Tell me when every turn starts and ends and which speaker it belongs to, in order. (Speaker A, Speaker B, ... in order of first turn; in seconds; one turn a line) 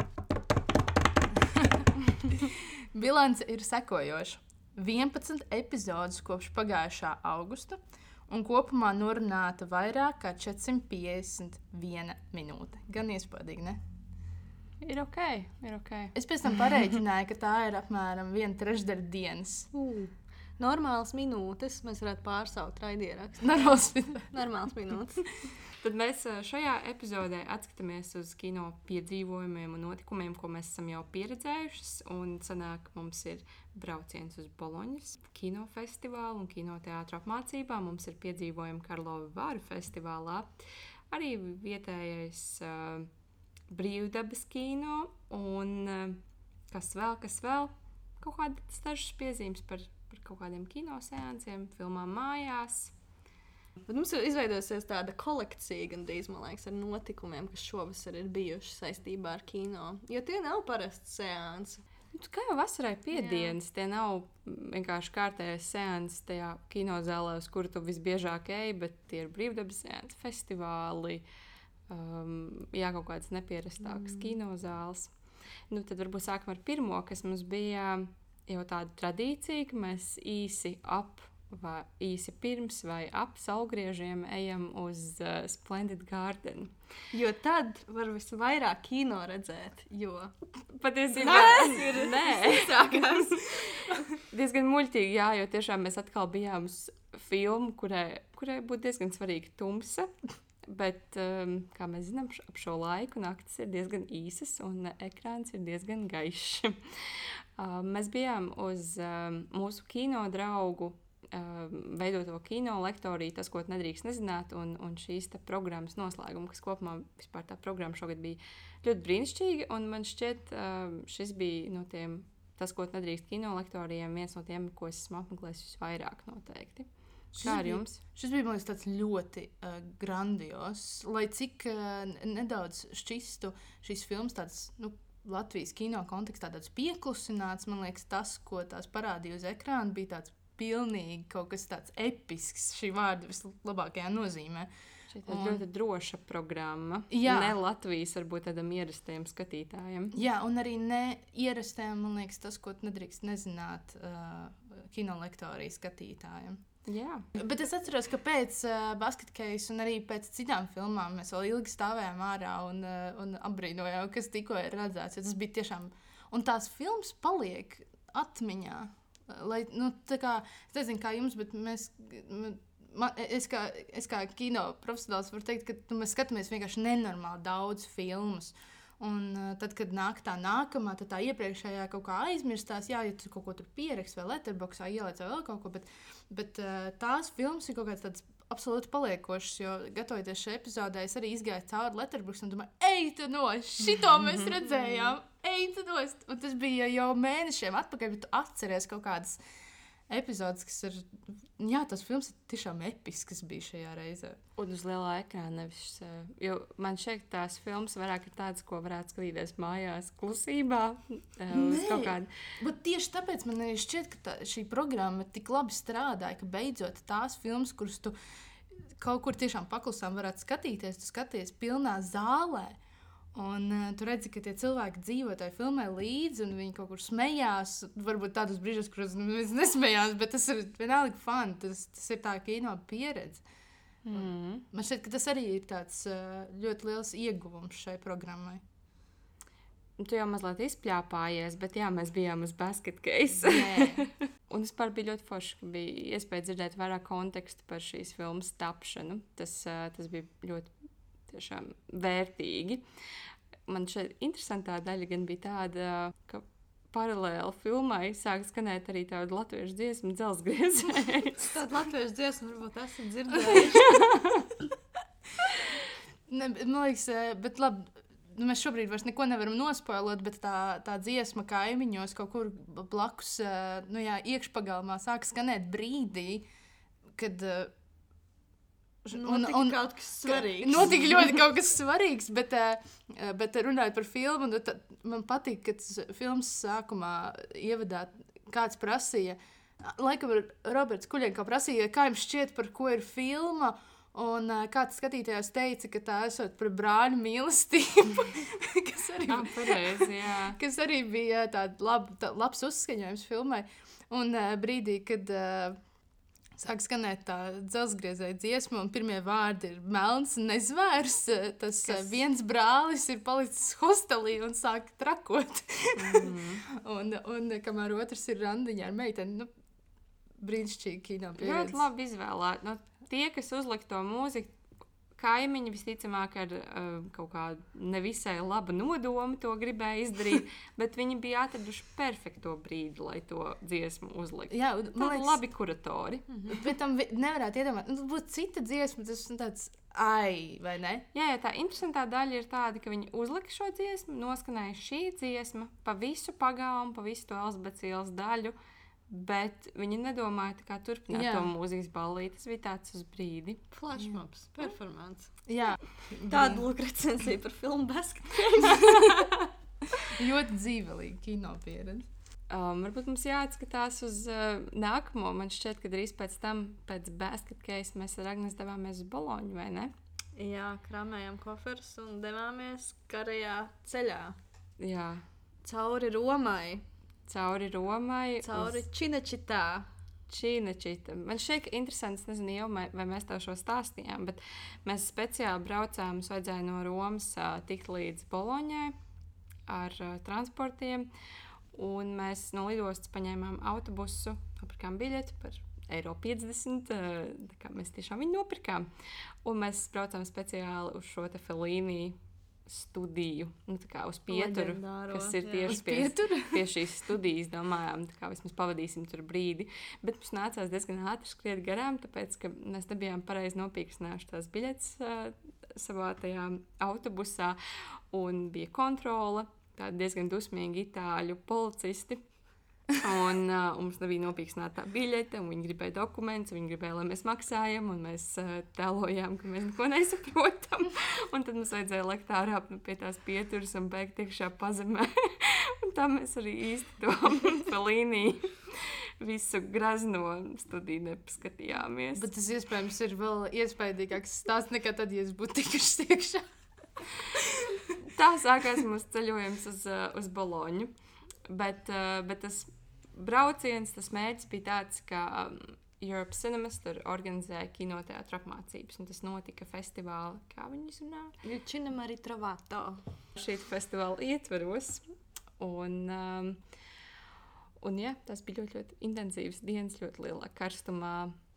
Speaker A: 1.3-13.8
Speaker B: 14.8-16.1
Speaker A: 16.1-19.7
Speaker C: 19.7-23.7
Speaker A: 23.4-24.3
Speaker C: 24.2-25.3
Speaker B: 25.8-40.5
Speaker B: 41.1-43.1
Speaker B: 43.7-52.9
Speaker C: 53.9-61.8
Speaker B: 62.1-71.2
Speaker C: 63.1-63.6
Speaker B: 71.9-75.1
Speaker B: 75.7-86.7
Speaker C: 87.1-90.3
Speaker B: 90.7-100.1
Speaker C: 91.1-94.0
Speaker B: 100.6-126.9
Speaker A: 127.3-144.7
Speaker B: 127.4-128.0
Speaker B: 145.1-150.2
Speaker A: 145.2-145.6
Speaker A: 147.1-147.6
Speaker A: 150.1-156.6
Speaker B: 156.8-157.3
Speaker A: 157.3-199.4
Speaker A: 200.1-204.4
Speaker B: 204.6-212.3
Speaker A: 211.5-218.1
Speaker A: 218.7-222.8
Speaker A: 223.3-233.4
Speaker B: 234.0-234.7
Speaker A: 234.1-238.6
Speaker B: 240.0-250.7
Speaker A: 243.4-244.0
Speaker B: 251.3-252.8
Speaker B: 253.7-261.5
Speaker C: 261.4-264.2
Speaker A: 266.3-276.4
Speaker A: 277.1-277.7
Speaker A: 279.0-305.8
Speaker C: 279.1-281.0
Speaker B: 299.3-300.6
Speaker A: 306.5-319.5
Speaker B: 315.9-316.6
Speaker A: 320.4-321.8
Speaker B: 321.4-324.6
Speaker B: 325.1-336.3
Speaker A: 334.5-335.4
Speaker C: 336.3-336.6
Speaker A: 336.5-341.1
Speaker B: 341.1-348.5
Speaker B: 349.1-353.6
Speaker A: 351.1-351.5
Speaker C: 353.7-355.4
Speaker A: 355.5-356.7
Speaker C: 356.3-359.3
Speaker A: 360.0-362.1
Speaker B: 362.5-369.9
Speaker C: 370.4-374.4
Speaker B: 374.8-375.2
Speaker C: 375.6-376.8
Speaker B: 377.3-378.8
Speaker C: 378.4-379.9
Speaker B: 380.3-388.9
Speaker B: 389.7-391.1
Speaker B: 391.7-398.9
Speaker B: 399.4-417.6
Speaker C: 404.3-405.8
Speaker A: 405.7-406.7
Speaker B: 418.1-422.2
Speaker B: 422.9-442.3
Speaker A: 442.1-446.5
Speaker A: 447.0-447.8
Speaker B: 448.1-450.9
Speaker B: 451.5-461.4
Speaker C: 461.4-463.0
Speaker B: 463.4-465.0
Speaker B: 465.6-466.6
Speaker B: 467.8-471.3